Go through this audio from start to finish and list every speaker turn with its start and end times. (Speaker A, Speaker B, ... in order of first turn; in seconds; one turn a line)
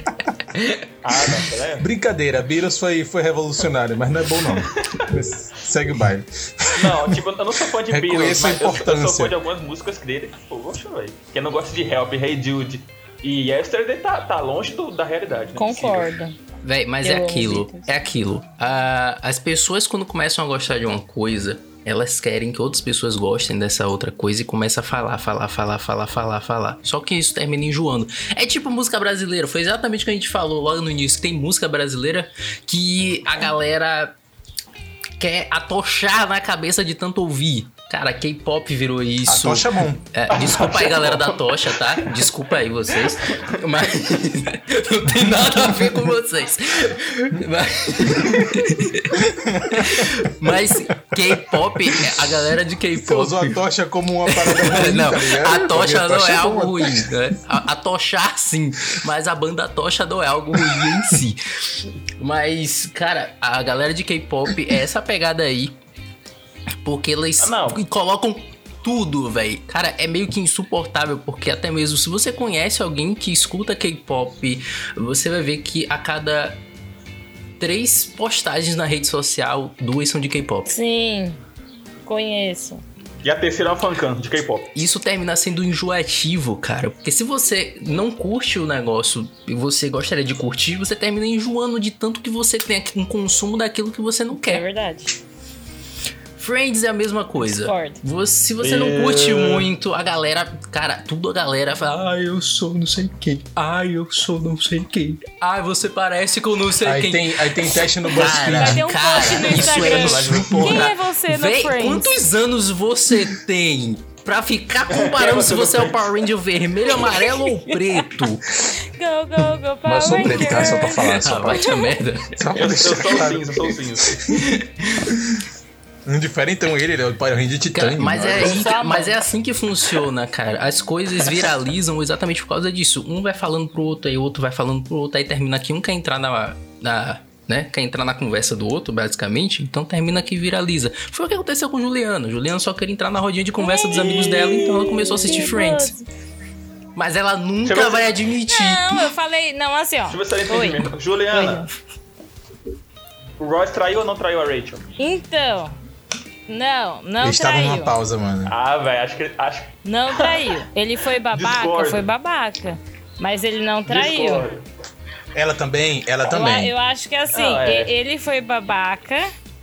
Speaker A: 0.5-0.8
Speaker B: 1.0-1.9
Speaker C: 1.8-7.2
Speaker B: 4.5-5.1
Speaker B: 6.8-16.1
Speaker C: 7.9-9.4
Speaker D: 15.6-16.4
Speaker A: 16.6-34.2
Speaker D: 17.0-17.9
Speaker A: 35.2-53.6
Speaker C: 39.3-40.0
Speaker B: 40.3-42.3
Speaker B: 42.9-43.4
Speaker C: 49.2-50.6
Speaker C: 51.2-52.2
Speaker C: 53.0-57.1
Speaker A: 54.3-65.8
Speaker C: 60.6-61.0
Speaker A: 66.8-76.6
Speaker B: 67.4-67.8
Speaker A: 77.6-80.7
Speaker D: 80.7-81.4
Speaker D: 82.0-82.8
Speaker B: 83.2-84.7
Speaker A: 84.8-94.6
Speaker D: 94.4-95.1
Speaker A: 96.4-118.5
Speaker D: 97.5-98.0
Speaker B: 98.6-99.7
Speaker C: 106.8-109.0
Speaker D: 108.1-112.2
Speaker B: 109.2-110.9
Speaker B: 114.9-116.3
Speaker D: 117.0-121.9
Speaker C: 119.8-121.7
Speaker A: 120.2-122.5
Speaker C: 122.3-125.4
Speaker B: 122.5-124.4
Speaker C: 126.1-128.6
Speaker A: 127.7-145.9
Speaker D: 128.4-129.2
Speaker D: 143.6-144.1
Speaker B: 143.9-145.1
Speaker D: 144.9-146.0
Speaker A: 147.0-149.1
Speaker B: 147.6-148.2
Speaker D: 148.5-151.7
Speaker B: 150.1-151.7
Speaker B: 153.4-154.8
Speaker D: 155.0-155.8
Speaker D: 156.5-158.0
Speaker C: 157.2-158.6
Speaker B: 158.5-160.5
Speaker D: 159.8-164.5
Speaker B: 161.3-162.1
Speaker B: 163.9-164.7
Speaker C: 165.3-166.7
Speaker D: 166.3-169.3
Speaker B: 167.3-167.9